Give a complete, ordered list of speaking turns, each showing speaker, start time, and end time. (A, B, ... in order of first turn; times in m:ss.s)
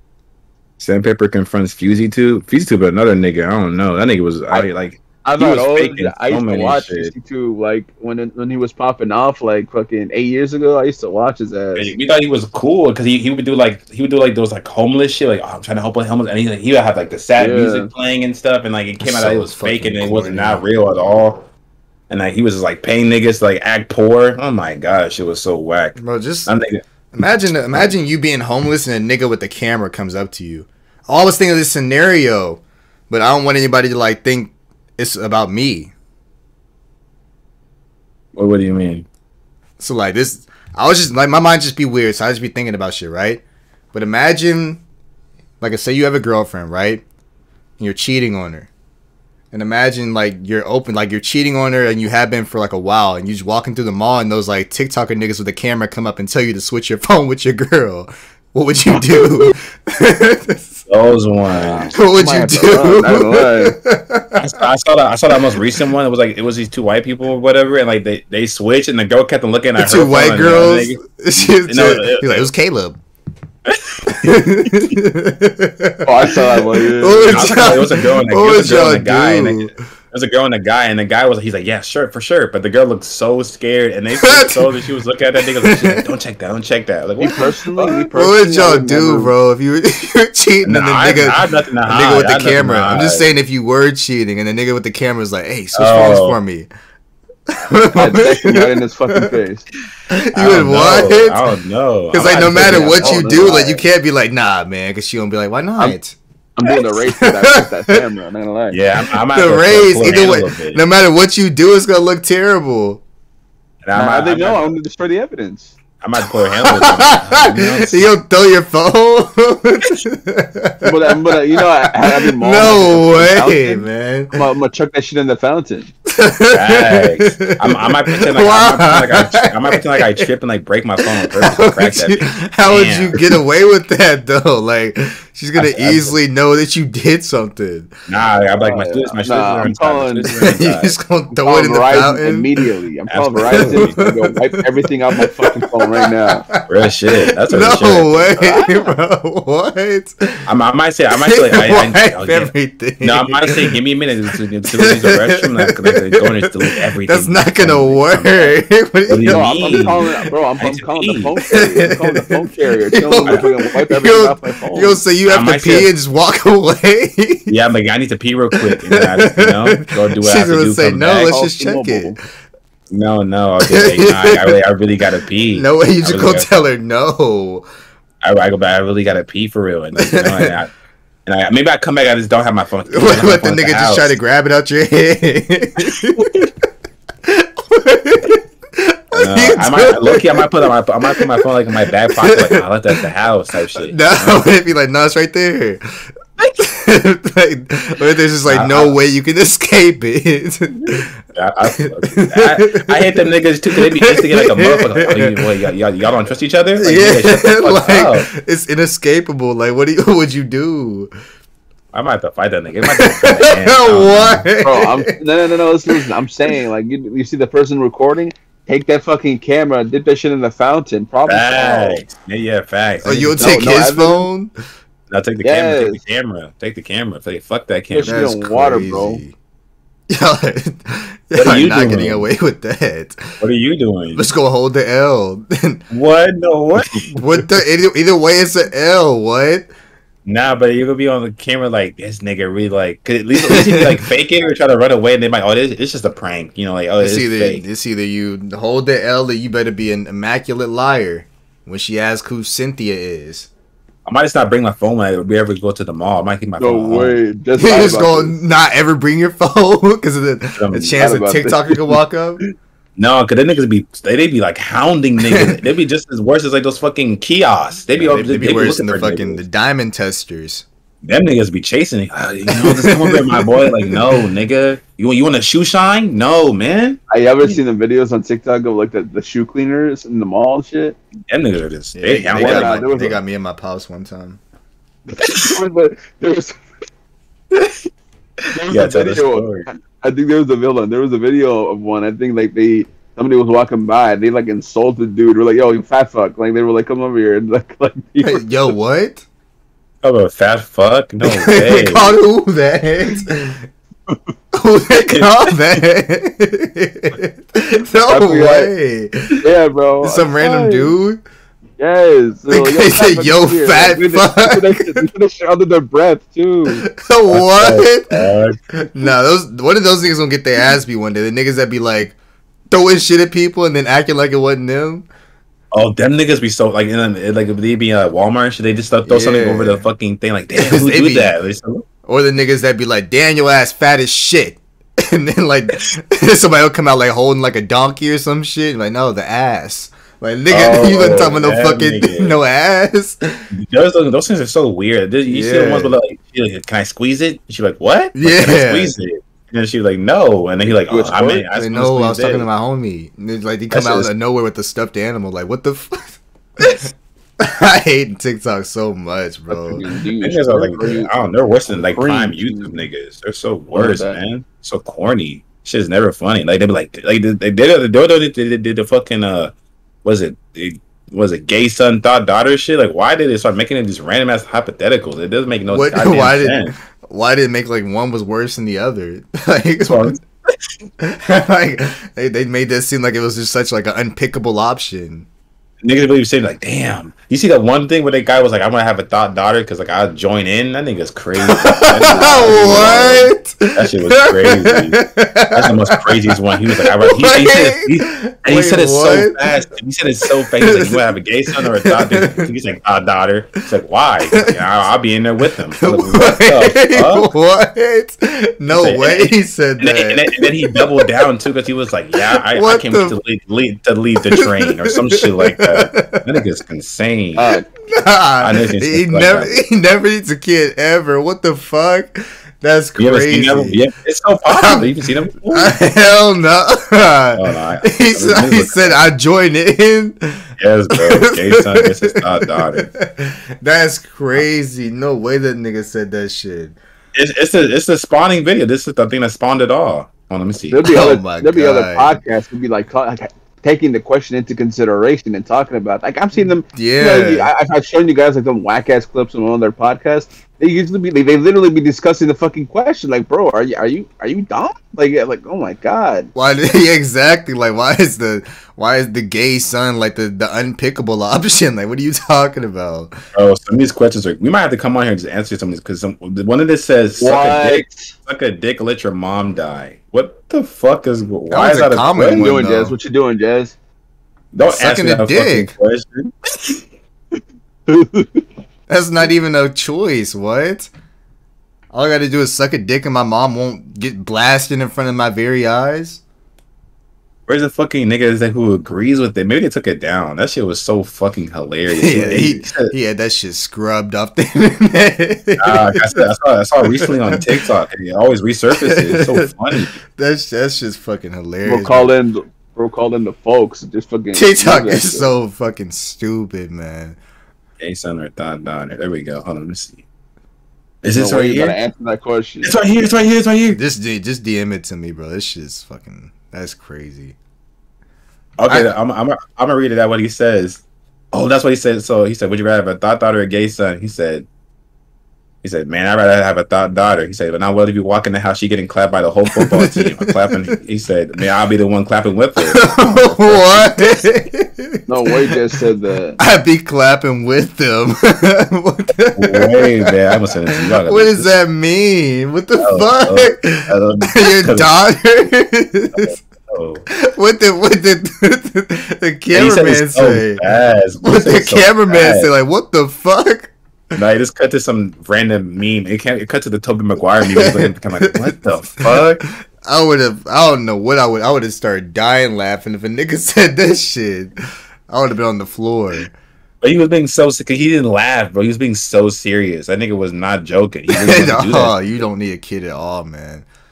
0:00.8-0:07.1 A
0:05.2-0:11.9 B
0:11.8-0:21.5 A
0:17.4-0:17.9 B
0:19.0-0:20.6 C
0:22.1-0:26.8 A
0:26.0-0:26.5 C
0:27.1-0:35.9 C
0:27.5-0:27.9 A
0:38.4-0:39.1 A
0:39.8-0:44.8 C
0:45.6-0:47.0 C
0:47.8-0:48.7 C
0:49.5-1:00.8 C
0:58.9-0:59.5 B
1:00.9-1:01.9 A
1:01.7-1:03.8 B
1:01.9-1:04.6 C
1:04.4-1:12.4 A
1:09.8-1:13.0 C
1:14.0-1:19.9 C
1:16.0-1:17.7 B
1:17.3-1:27.4 A
1:24.2-1:24.8 C
1:25.4-1:26.0 C
1:27.2-1:29.3 B
1:27.7-1:36.7 C
1:30.6-1:33.3 A
1:35.7-1:36.4 A
1:37.5-1:39.3 C
1:38.0-1:39.7 B
1:40.1-1:41.4 C
1:40.3-1:43.6 A
1:42.1-1:48.0 C
1:42.2-1:43.8 B
1:46.6-1:48.8 B
1:48.7-1:50.8 A
1:49.3-1:53.0 C
1:53.8-1:54.7 A
1:53.9-1:55.8 B
1:56.0-1:58.1 A
1:56.3-2:04.4 C
2:00.8-2:05.9 B
2:06.1-2:10.3 C
2:06.5-2:13.4 A
2:11.0-2:17.9 C
2:15.6-2:16.2 A
2:18.1-2:21.0 A
2:18.6-2:20.3 B
2:20.4-2:22.5 C
2:21.3-2:26.5 B
2:23.1-2:24.0 A
2:23.4-2:30.4 C
2:26.7-2:28.4 A
2:28.4-2:28.9 B
2:30.5-2:38.6 A
2:31.1-2:33.8 C
2:34.7-2:40.1 C
2:39.1-2:40.0 A
2:39.3-2:45.0 B
2:40.6-2:41.4 A
2:41.5-2:47.5 C
2:45.3-2:45.9 A
2:47.5-2:51.4 A
2:48.6-2:52.2 C
2:51.1-2:52.2 B
2:52.9-2:56.5 A
2:53.6-2:54.6 C
2:55.5-2:57.7 C
2:58.2-3:00.7 A
3:00.0-3:00.6 C
3:01.3-3:04.2 A
3:02.9-3:06.5 C
3:07.2-3:13.1 C
3:09.1-3:14.5 A
3:13.8-3:21.1 C
3:18.5-3:19.0 A
3:21.3-3:28.3 A
3:21.7-3:25.4 C
3:26.8-3:31.1 C
3:31.9-3:34.5 A
3:32.8-3:35.2 C
3:34.6-3:42.0 B
3:35.9-3:36.6 C
3:41.3-3:43.6 A
3:43.0-3:44.5 C
3:43.4-3:44.3 B
3:45.1-3:48.2 A
3:45.4-3:46.0 B
3:47.9-3:49.2 B
3:48.1-3:49.4 C
3:50.1-3:53.4 C
3:51.4-3:52.3 A
3:53.4-3:54.3 A
3:54.1-3:55.8 C
3:55.9-3:57.5 A
3:56.9-3:59.7 C
4:00.2-4:07.6 A
4:03.4-4:04.0 C
4:07.0-4:13.5 C
4:14.1-4:17.2 A
4:16.6-4:18.4 B
4:17.6-4:22.4 C
4:20.6-4:21.0 A
4:20.9-4:22.5 B
4:23.0-4:29.4 A
4:25.2-4:25.6 C
4:28.0-4:30.6 C
4:31.0-4:37.0 A
4:32.5-4:34.3 C
4:37.1-4:41.0 B
4:41.3-4:43.2 A
4:41.9-4:44.4 C
4:42.3-4:43.2 B
4:45.1-4:46.6 B
4:45.2-4:45.6 A
4:48.5-4:58.5 B
4:48.7-4:49.7 A
4:58.2-4:59.3 C
5:00.0-5:02.2 A
5:01.2-5:03.7 C
5:04.5-5:09.4 C
5:05.1-5:05.6 A
5:08.1-5:08.7 B
5:09.4-5:11.0 B
5:10.0-5:11.2 C
5:11.8-5:16.9 B
5:12.5-5:15.1 C
5:16.8-5:18.2 C
5:17.3-5:19.1 A
5:18.7-5:22.2 C
5:22.7-5:25.1 C
5:25.7-5:31.8 A
5:29.0-5:29.8 C
5:30.6-5:31.3 C
5:32.1-5:43.5 C
5:40.5-5:42.4 A
5:43.5-5:52.5 A
5:45.3-5:46.0 C
5:48.2-5:48.9 C
5:50.9-5:51.4 B
5:51.6-5:59.8 C
5:53.7-5:54.1 A
5:59.6-6:01.1 B
6:00.2-6:16.7 A
6:01.7-6:02.8 B
6:03.7-6:04.2 B
6:15.7-6:20.2 C
6:19.9-6:20.2 A
6:21.0-6:25.3 C
6:25.8-6:35.0 A
6:31.4-6:39.5 C
6:32.1-6:32.6 B
6:35.5-6:47.3 A
6:40.6-6:42.5 C
6:45.7-6:51.1 C
6:48.7-6:57.6 A
6:52.3-6:53.2 C
6:54.3-6:56.3 C
6:57.4-6:57.6 B
6:57.8-7:03.8 C
6:58.4-6:59.6 A
7:03.0-7:05.8 A
7:04.5-7:04.9 C
7:05.5-7:16.8 C
7:07.4-7:09.0 A
7:10.6-7:12.9 A
7:17.1-7:21.0 A
7:20.7-7:36.3 B
7:20.8-7:22.2 C
7:26.7-7:27.5 C
7:36.4-7:43.1 C
7:43.4-7:52.4 A
7:47.2-7:48.1 B
7:51.5-7:53.0 C
7:52.2-7:53.8 B
7:54.5-7:56.7 A
7:54.6-7:55.7 C
7:57.9-7:58.4 B
7:58.9-8:00.9 C
8:01.9-8:06.2 C
8:07.5-8:12.9 A
8:11.9-8:16.2 C
8:15.6-8:20.0 A
8:16.8-8:17.4 C
8:18.7-8:22.1 C
8:21.6-8:25.3 B
8:24.3-8:27.2 C
8:27.8-8:30.0 A
8:31.0-8:31.8 A
8:31.1-8:32.8 B
8:32.6-8:33.8 A
8:33.7-8:37.4 C
8:38.6-8:44.5 A
8:38.7-8:38.9 C
8:45.6-8:54.2 A
8:49.5-8:50.7 C
8:52.6-8:55.6 C
8:55.1-8:56.4 B
8:56.4-9:00.2 C
8:59.4-9:01.5 A
9:00.7-9:06.4 C
9:02.8-9:04.9 A
9:06.2-9:07.0 A
9:07.1-9:10.6 C
9:09.5-9:12.5 A
9:11.2-9:13.7 C
9:14.2-9:19.4 A
9:17.5-9:24.5 C
9:25.1-9:26.3 C
9:26.8-9:32.0 A
9:31.1-9:33.7 C